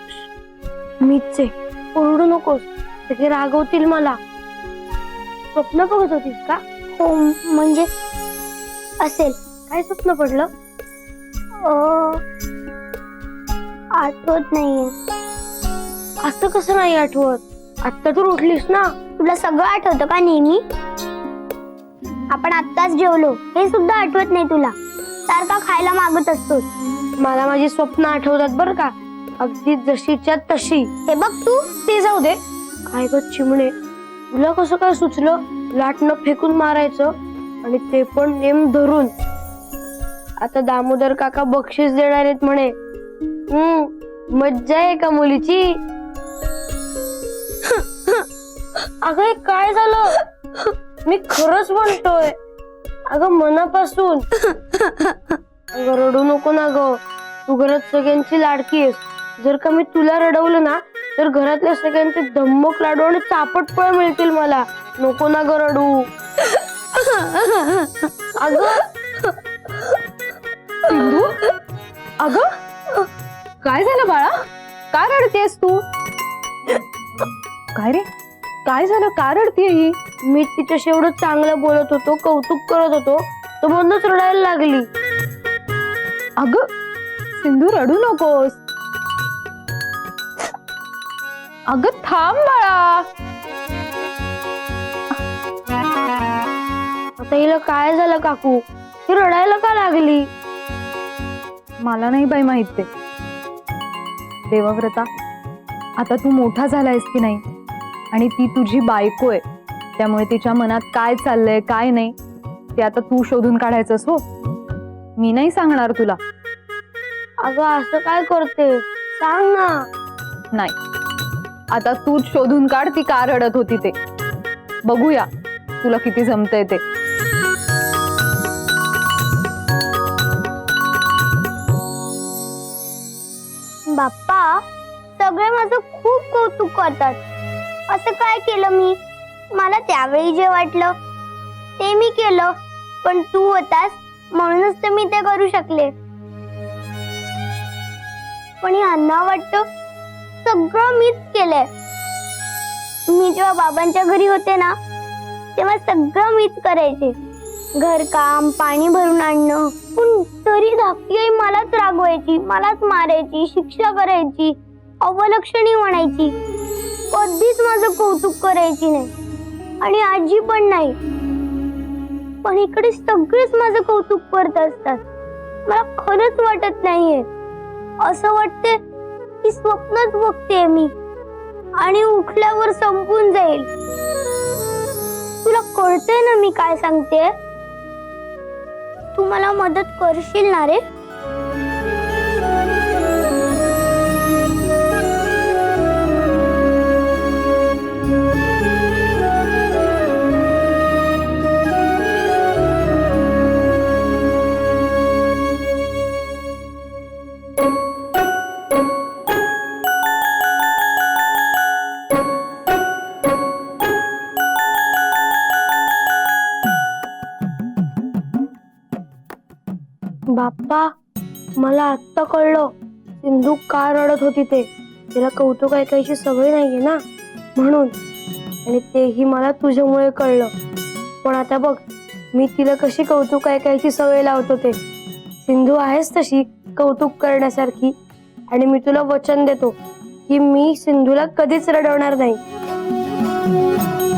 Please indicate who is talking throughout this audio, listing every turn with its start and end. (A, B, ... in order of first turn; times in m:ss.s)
0:01.0-0:04.2 A
0:05.5-0:06.6 A
0:06.9-0:07.9 B
0:09.0-0:09.4 B
0:09.7-0:10.5 A
0:11.6-0:12.2 B
0:14.0-0:14.9 B
0:16.2-0:18.9 A
0:19.2-0:20.6 B
0:22.3-0:24.8 B
0:25.3-0:26.7 B
0:27.2-0:30.9 A
0:31.1-0:31.8 B
0:31.8-0:32.4 A
0:32.9-0:33.7 A
0:34.3-0:39.1 A
0:40.4-0:42.7 A
0:43.5-0:45.7 A
0:49.0-0:52.4 A
0:53.1-0:54.3 A
0:55.7-1:06.0 A
1:07.2-1:07.5 A
1:08.3-1:08.9 A
1:10.8-1:11.4 C
1:12.2-1:12.5 C
1:13.6-1:14.4 C
1:14.9-1:15.8 C
1:17.7-1:18.0 C
1:18.6-1:20.0 C
1:20.3-1:24.9 A
1:26.4-1:26.6 C
1:27.4-1:28.6 C
1:31.7-1:33.0 C
1:37.2-1:40.3 A
1:41.8-1:42.9 C
1:44.5-1:45.1 C
1:46.0-1:47.4 C
1:48.1-1:49.4 C
1:50.0-1:52.2 C
1:52.8-1:54.2 C
1:55.2-1:56.2 C
1:57.4-1:59.8 A
2:01.7-2:04.0 C
2:04.8-2:05.3 C
2:05.8-2:06.8 C
2:13.9-2:14.6 B
2:15.2-2:17.2 B
2:17.9-2:19.0 B
2:19.5-2:20.9 B
2:21.8-2:25.9 B
2:28.6-2:29.6 B
2:30.4-2:31.7 B
2:33.1-2:34.8 B
2:35.6-2:37.2 B
2:37.8-2:46.3 B
2:47.1-2:49.1 B
2:49.8-2:51.0 B
2:52.4-2:55.0 B
2:55.7-2:57.2 B
2:58.0-2:58.8 B
2:59.4-3:00.9 B
3:01.8-3:03.7 B
3:05.4-3:07.3 B
3:09.1-3:10.8 B
3:40.3-3:40.9 A
3:41.6-3:47.0 A
3:47.6-3:48.0 A
3:48.6-3:50.5 A
3:51.2-3:54.8 A
3:55.4-3:57.9 A
3:58.5-3:59.8 A
4:00.3-4:02.4 A